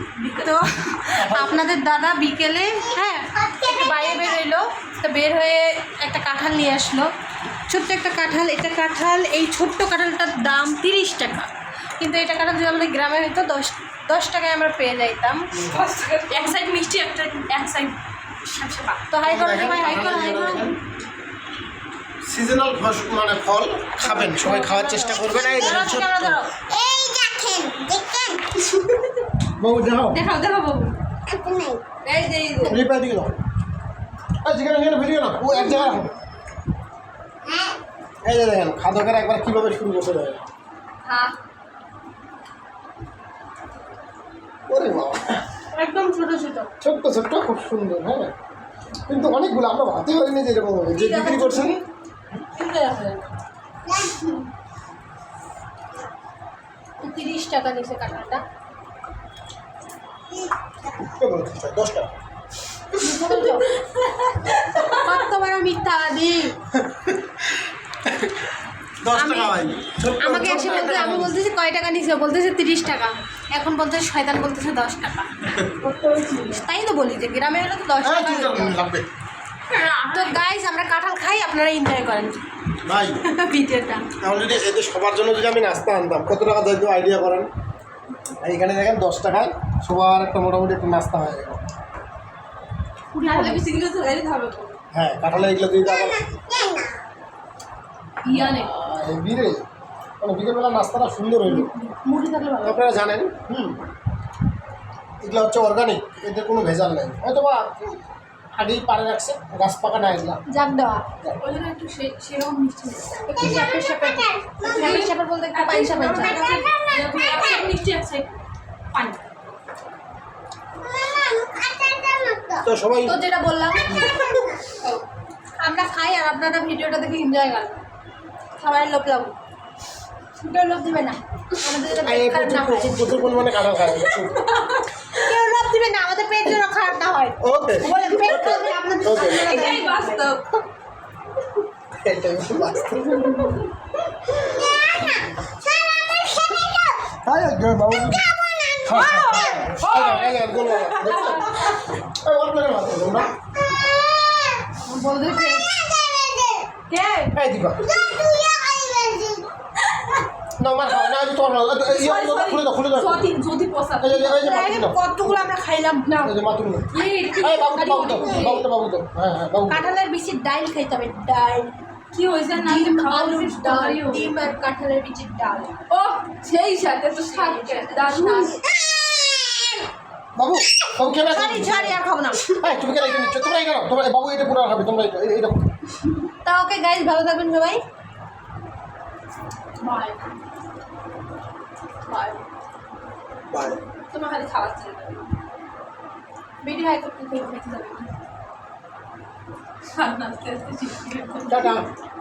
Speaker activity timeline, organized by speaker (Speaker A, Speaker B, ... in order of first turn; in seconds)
Speaker A: 0.2-0.5, 15.7-19.0, 30.1-30.9, 32.0-32.8, 63.2-65.1, 75.8-76.6, 79.7-80.4, 93.1-94.8, 98.2-98.7, 101.5-102.5, 111.4-113.3, 114.6-118.4, 118.9-119.2, 134.1-134.9, 137.9-138.3, 139.2-140.4, 142.9-143.7, 148.9-151.8, 156.9-157.3, 161.8-164.7, 166.0-166.3, 166.9-168.7, 172.1-174.3, 175.9-178.6, 189.8-190.3, 192.0-192.4, 193.9-195.3, 196.6-198.1, 199.9-201.8
Speaker B: 0.2-7.1, 7.7-11.5, 12.0-15.4, 19.1-20.7, 24.0-26.5, 41.0-41.3, 45.7-46.7, 50.9-51.7, 52.5-53.2, 57.0-58.4, 63.0-63.7, 64.8-66.5, 69.1-69.6, 70.2-75.3, 76.4-78.8, 79.8-82.4, 83.2-84.1, 93.2-93.6, 102.1-102.7, 110.5-111.0, 113.3-116.5, 123.0-124.3, 125.6-127.8, 128.6-129.3, 130.4-133.4, 135.1-140.3, 154.8-155.6, 164.4-166.2, 168.1-168.5, 169.7-171.7, 172.5-175.8, 177.2-178.6, 181.2-182.4, 186.4-187.8
Speaker C: 1.1-1.6, 19.2-20.8, 22.2-26.4, 29.6-30.2, 32.6-33.4, 34.4-36.1, 38.2-40.4, 44.7-45.4, 46.8-48.3, 49.1-51.8, 61.1-62.1, 66.9-67.2, 68.1-68.4, 69.0-71.3, 78.0-79.1, 82.8-83.2, 84.2-87.5, 88.4-91.6, 94.9-96.3, 98.3-99.6, 100.2-101.7, 102.6-103.8, 105.2-108.0, 108.5-110.4, 122.6-123.2, 132.0-134.4, 137.4-139.5, 141.9-143.2, 147.2-148.3, 148.8-153.3, 157.3-157.8, 160.6-163.3, 164.0-165.4, 166.2-169.9, 180.3-185.7, 193.5-193.8, 201.5-201.9
Speaker D: 3.4-4.3, 25.5-25.9, 26.6-28.7, 31.2-31.8, 37.5-37.7, 96.0-96.9, 113.3-114.8, 116.2-117.7, 120.8-122.7, 144.6-147.0, 148.3-149.8, 153.7-154.6, 155.7-156.7, 157.9-159.5, 178.7-179.1